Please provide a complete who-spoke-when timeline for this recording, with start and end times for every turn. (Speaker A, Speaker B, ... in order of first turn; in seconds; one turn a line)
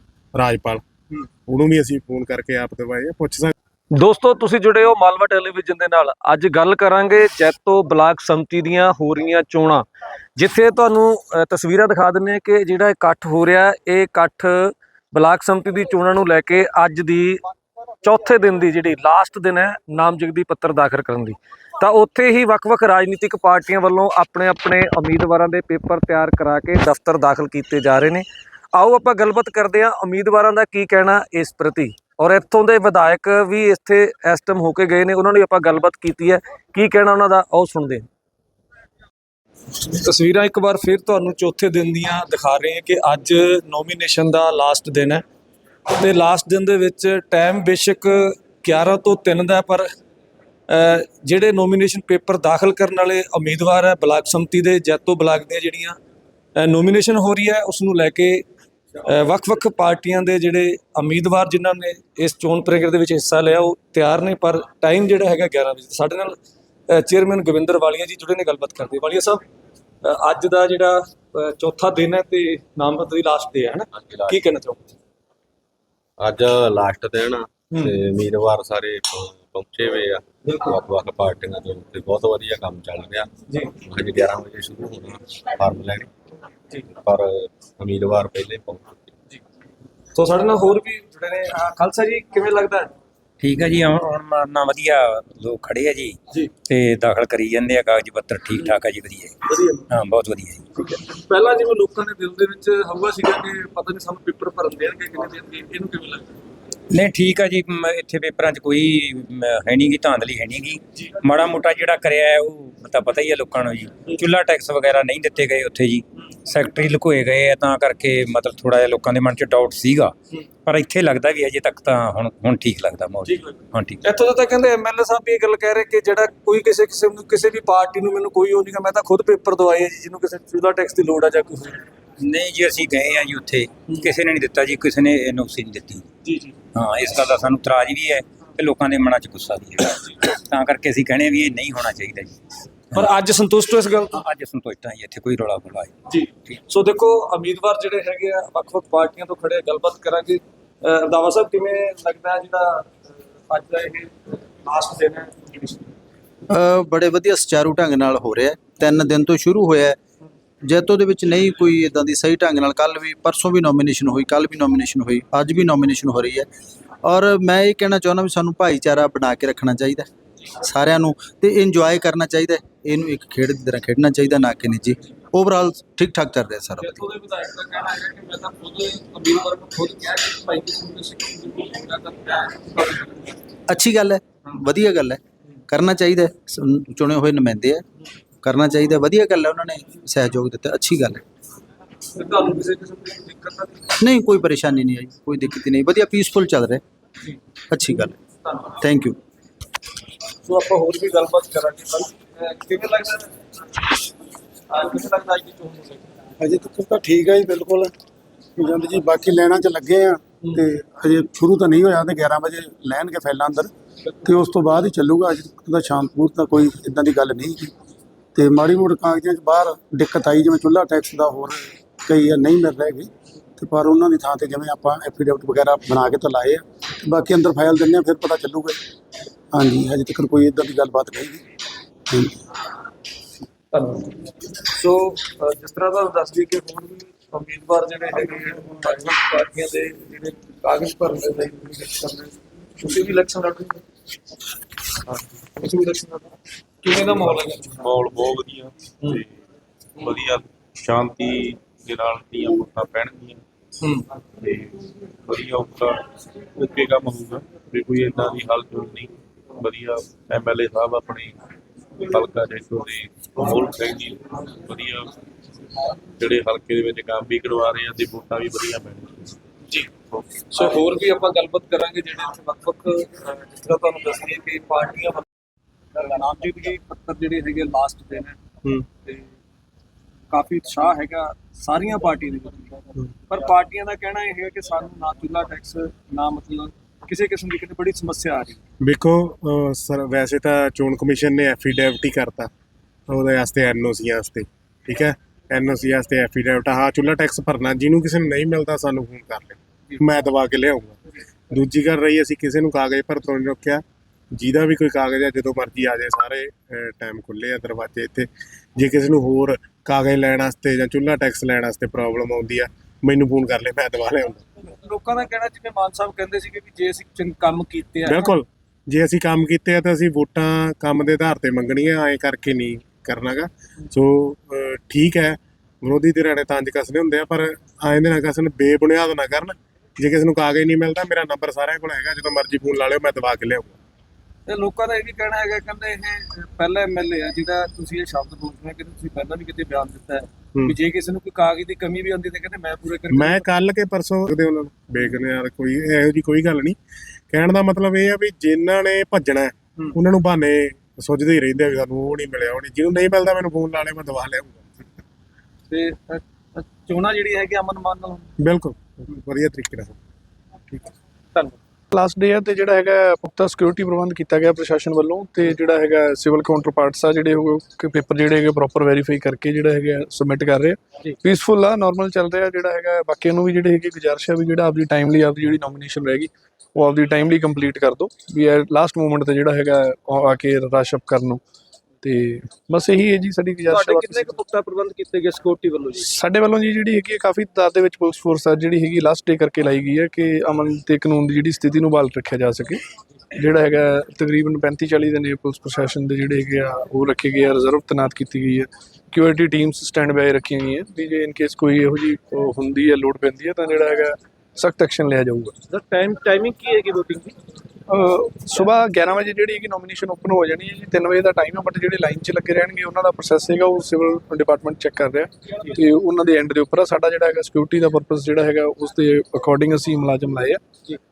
Speaker A: 0.3-0.8
Speaker A: 1.5-3.5
Speaker B: 4.0-9.9
Speaker B: 10.4-17.4
Speaker B: 18.0-38.1
Speaker B: 39.9-45.2
Speaker B: 46.0-49.9
Speaker B: 50.7-56.0
Speaker B: 56.6-58.4
Speaker B: 59.0-66.3
Speaker B: 66.9-69.4
Speaker B: 70.0-74.8
Speaker C: 74.0-74.4
Speaker C: 76.2-83.3
Speaker C: 83.8-86.1
Speaker C: 87.0-89.1
Speaker B: 90.2-92.9
Speaker D: 93.4-99.3
Speaker B: 99.5-99.8
Speaker D: 99.9-100.6
Speaker B: 100.8-106.3
Speaker D: 106.9-120.2
Speaker D: 120.7-124.0
Speaker B: 123.3-131.8
Speaker D: 132.2-136.1
Speaker B: 136.2-136.6
Speaker D: 136.8-142.4
Speaker B: 142.9-144.2
Speaker D: 144.1-145.9
Speaker B: 146.1-152.9
Speaker B: 153.5-155.9
Speaker E: 156.5-160.0
Speaker E: 160.6-166.5
Speaker E: 167.0-170.1
Speaker E: 170.6-177.1
Speaker B: 176.8-183.4
Speaker E: 183.7-187.8
Speaker E: 188.4-191.2
Speaker B: 192.2-193.9
Speaker E: 194.0-196.8
Speaker E: 197.7-198.2
Speaker E: 198.8-199.2
Speaker B: 200.4-203.9
Speaker B: 204.7-206.1
Speaker F: 206.4-207.9
Speaker F: 208.6-213.7
Speaker F: 214.2-217.7
Speaker F: 218.3-228.8
Speaker F: 229.5-231.4
Speaker B: 233.7-243.8
Speaker B: 245.6-246.3
Speaker B: 246.8-248.0
Speaker G: 247.8-249.3
Speaker G: 250.0-253.4
Speaker G: 254.4-256.0
Speaker G: 256.6-261.4
Speaker G: 262.1-265.1
Speaker G: 266.2-269.3
Speaker B: 270.5-275.2
Speaker B: 276.0-278.4
Speaker B: 280.3-288.6
Speaker A: 288.8-292.5
Speaker A: 293.1-301.0
Speaker A: 301.5-303.8
Speaker A: 304.3-314.4
Speaker B: 314.8-318.3
Speaker A: 318.1-333.8
Speaker B: 334.5-343.4
Speaker A: 343.1-346.8
Speaker A: 347.3-355.0
Speaker B: 355.7-358.3
Speaker A: 358.4-360.0
Speaker H: 361.9-381.4
Speaker H: 382.0-384.3
Speaker B: 383.7-386.1
Speaker H: 386.0-405.6
Speaker B: 405.7-407.4
Speaker H: 407.9-420.6